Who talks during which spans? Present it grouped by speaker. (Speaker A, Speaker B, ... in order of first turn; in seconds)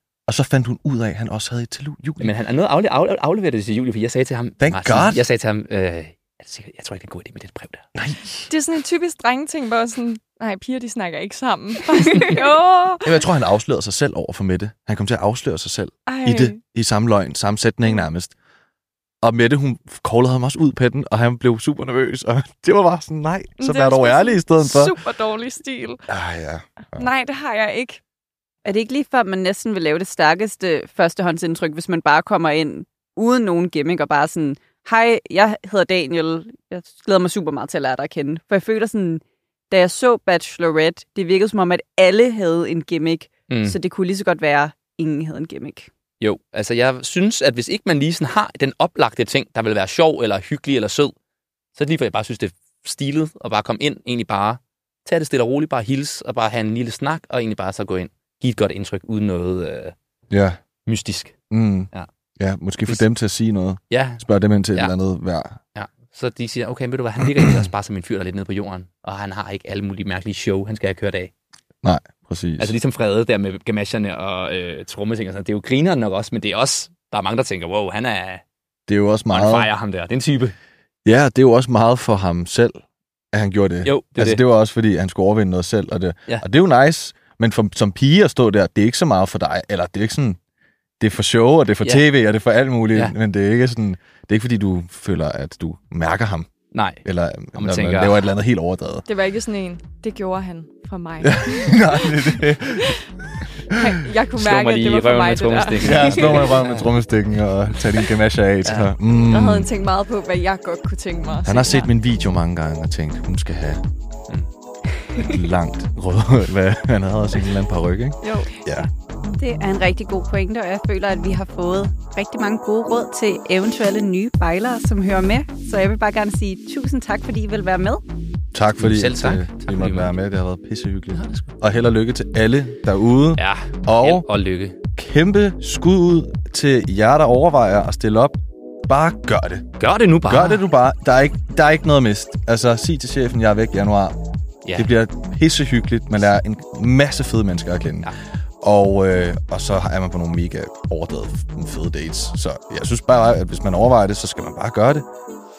Speaker A: 0.3-2.3, 4.6-5.2, 8.0-8.5, 13.0-18.3, 19.2-24.9, 26.1-27.1, 60.3-60.6, 61.5-65.6, 71.8-72.7, 78.9-79.7, 81.0-82.8, 83.3-90.4, 91.0-96.5, 97.0-99.0, 101.2-103.0, 105.8-109.7, 111.4-113.8, 115.2-118.9, 128.5-134.3, 134.9-138.4, 138.9-139.7, 140.3-144.2, 144.8-155.1
Speaker B: 2.2-7.9, 43.5-43.8, 46.2-51.1, 51.8-60.0, 60.9-61.4, 63.9-64.9, 65.8-71.3, 72.6-78.4, 79.3-80.5, 83.8-84.4, 96.7-97.0, 97.5-98.2, 104.4-106.9, 108.7-108.9, 128.8-130.1, 131.1-131.6, 133.4-134.8, 139.8-140.6, 144.7-144.9
Speaker C: 8.5-13.2, 16.1-16.6, 23.6-26.0, 26.9-28.0, 99.1-103.0, 103.7-106.6, 109.3-111.9, 118.2-118.6
Speaker D: 28.6-45.9, 119.4-128.0